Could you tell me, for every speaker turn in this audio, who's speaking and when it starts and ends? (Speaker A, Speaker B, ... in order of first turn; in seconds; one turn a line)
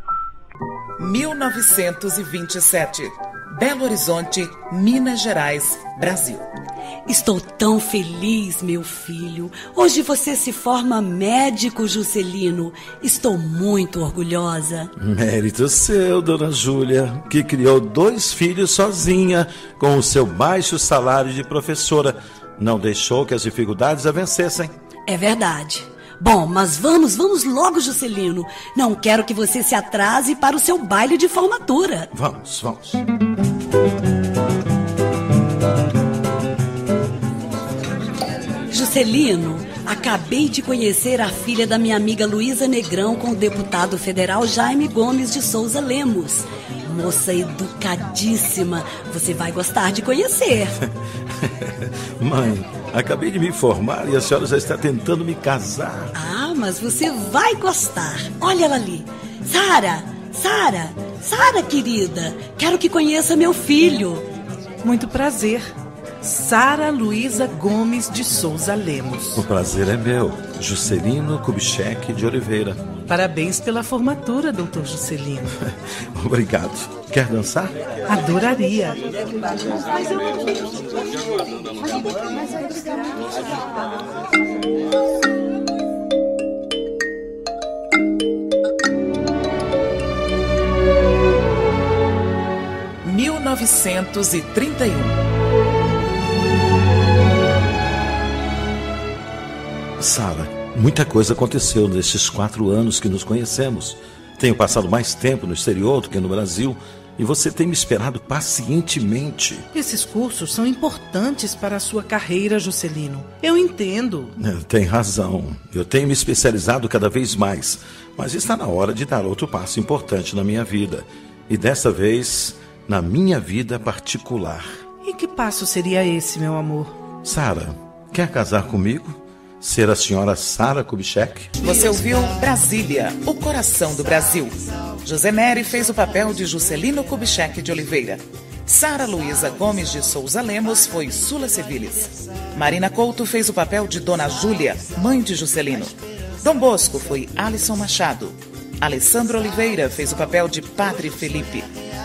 Speaker A: 1.0-6.4
Speaker B: 7.1-14.9
Speaker C: 15.0-24.7
Speaker B: 25.1-32.1
Speaker C: 32.1-33.0
Speaker B: 38.7-50.7
Speaker C: 51.4-56.1
Speaker B: 56.1-64.2
Speaker D: 64.8-69.4
Speaker C: 69.3-72.8
Speaker D: 73.1-75.5
Speaker C: 75.7-77.8
Speaker D: 78.1-79.1
Speaker A: 93.0-95.2
Speaker C: 100.0-109.6
Speaker D: 109.7-114.3
Speaker C: 114.4-124.8
Speaker D: 125.0-127.0
Speaker C: 127.2-131.6
Speaker A: 131.6-151.7